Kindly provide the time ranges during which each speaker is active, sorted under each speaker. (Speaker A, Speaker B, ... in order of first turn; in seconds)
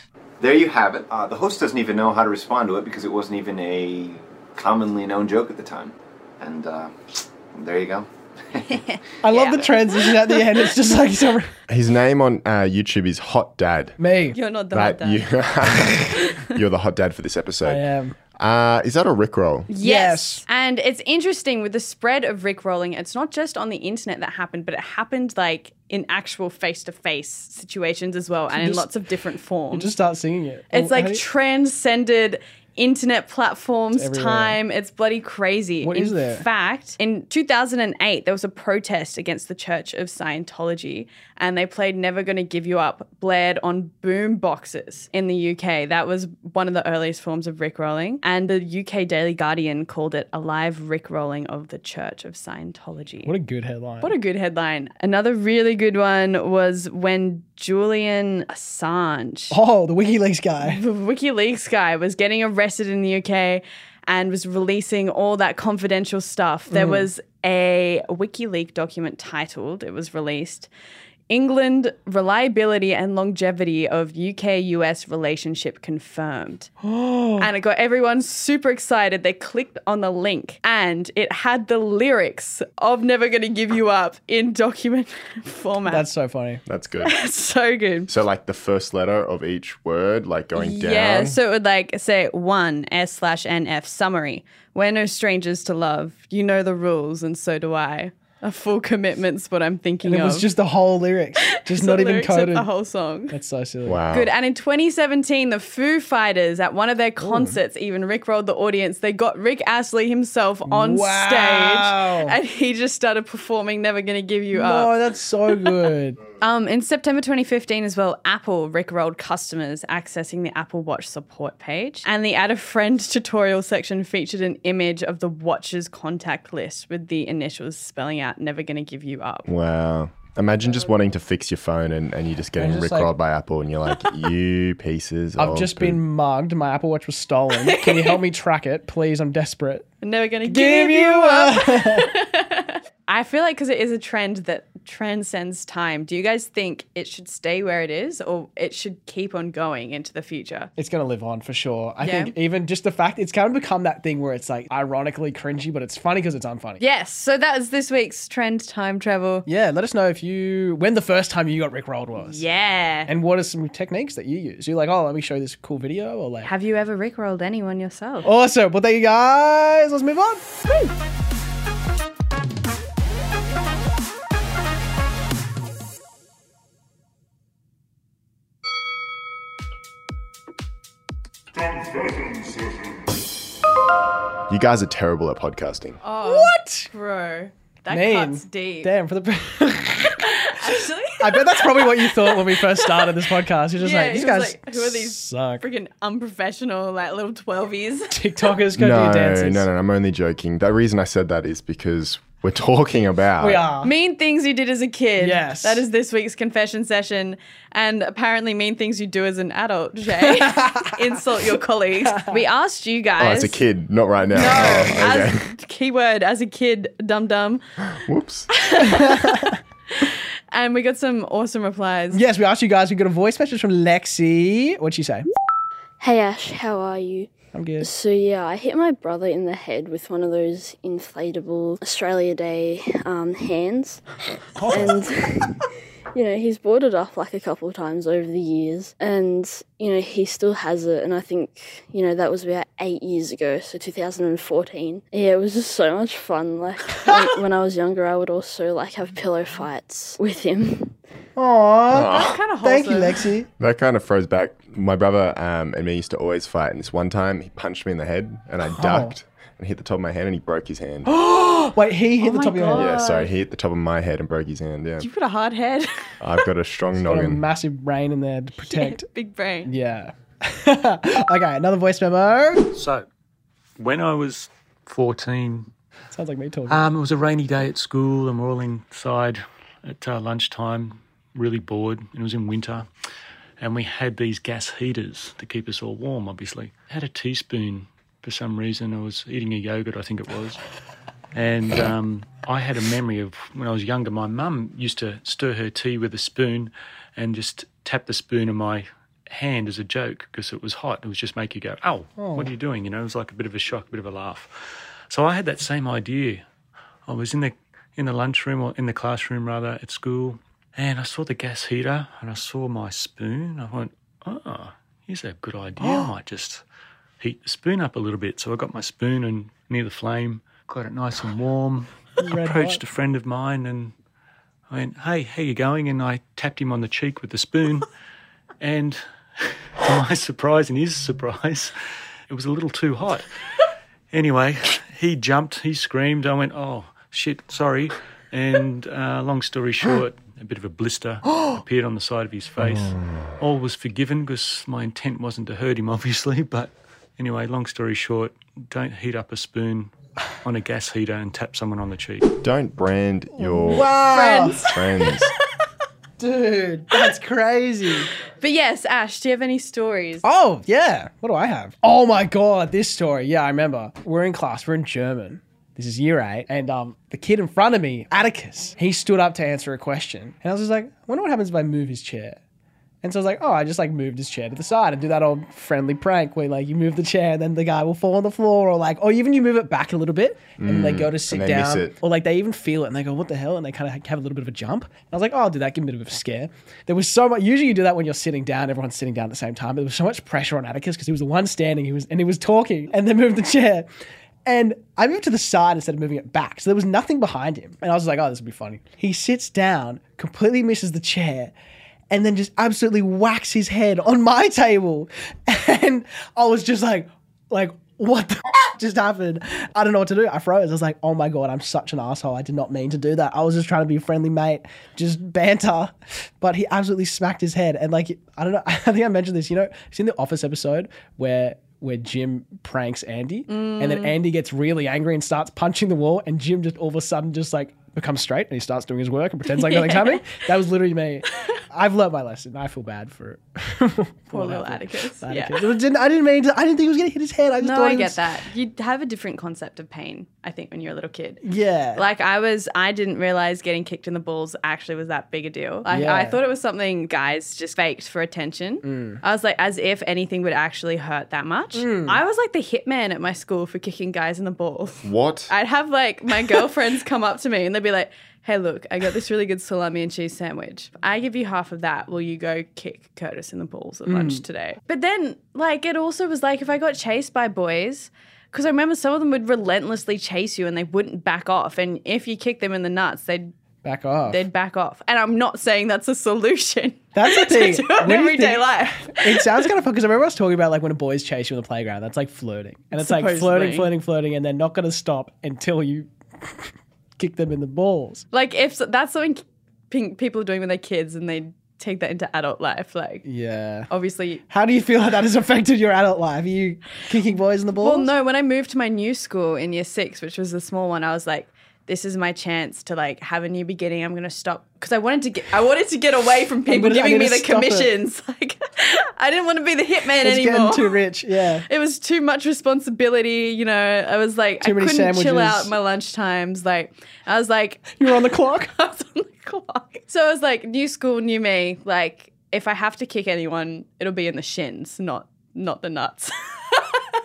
Speaker A: 0.4-8.8
Speaker B: 8.7-10.4, 14.3-15.3, 16.1-16.5, 19.7-29.9, 30.7-53.3, 54.0-59.5, 60.6-70.7, 71.3-76.7, 77.4-86.0, 87.0-88.1, 90.6-100.5, 101.7-103.4, 104.1-115.0, 116.4-129.5, 137.7-138.2, 140.0-150.7, 152.0-152.3, 156.8-159.5, 162.2-163.1, 166.4-168.3, 186.0-188.9, 190.2-193.1, 193.8-198.6, 203.8-213.6, 214.3-217.6, 218.5-222.2, 252.0-253.3, 262.2-263.3, 265.0-266.1, 268.6-269.7, 354.0-354.9, 358.2-360.2, 423.5-424.2, 429.5-430.2, 434.3-435.6, 437.6-441.4, 441.9-473.5, 474.3-479.7, 482.9-483.9, 488.3-493.3, 493.9-494.4, 497.8-511.0, 511.7-527.0
Speaker C: 9.2-11.5, 14.0-14.4, 17.6-18.2, 19.8-20.4, 28.5-28.9, 29.7-31.2, 34.0-34.6, 35.8-36.5, 53.2-54.1, 59.5-60.8, 66.7-67.1, 76.8-77.5, 85.9-86.6, 100.0-102.7, 103.3-104.0, 107.2-107.6, 110.7-112.4, 114.5-116.2, 132.6-133.1, 135.4-139.9, 140.4-142.1, 150.8-156.8, 159.5-162.5, 163.1-166.5, 168.2-170.4, 186.2-186.9, 187.9-190.3, 191.2-195.7, 198.1-199.7, 203.4-203.9, 205.2-205.9, 210.2-210.9, 212.1-212.4, 214.5-214.9, 218.8-219.6, 222.1-225.3, 227.5-227.9, 234.6-235.1, 251.4-253.5, 258.7-259.2, 261.1-262.9, 267.0-269.0, 269.6-272.7, 276.1-276.9, 302.2-302.5, 315.8-316.1, 322.2-322.8, 353.4-354.7, 356.2-358.1, 360.2-372.4, 373.0-393.9, 394.4-401.5, 402.1-438.2, 441.4-442.1, 445.9-446.4, 448.8-449.2, 451.8-452.2, 464.1-464.4, 473.8-474.4, 477.1-488.2, 493.2-493.9, 494.5-498.1, 506.7-507.9, 510.2-511.7, 514.6-515.7, 518.0-518.7
Speaker D: 11.7-14.0, 14.7-17.8, 18.4-19.7, 86.7-87.1, 88.1-91.4, 103.8-104.3, 129.5-136.0, 184.5-186.0, 198.8-203.7, 213.2-215.5, 218.0-218.5, 251.9-252.4, 253.6-261.1, 262.7-265.1, 266.2-267.4, 352.4-353.9, 354.6-355.3, 380.6-382.0, 455.0-455.5
Speaker E: 226.0-227.3, 227.8-234.0, 234.8-235.6, 236.2-250.9
Speaker F: 272.8-273.1, 273.8-275.7, 276.7-282.9, 283.6-290.6, 291.3-304.5, 305.1-306.4, 307.1-316.6, 317.2-323.9, 324.7-327.9, 328.6-331.7, 332.3-333.3, 334.1-349.9, 350.4-352.2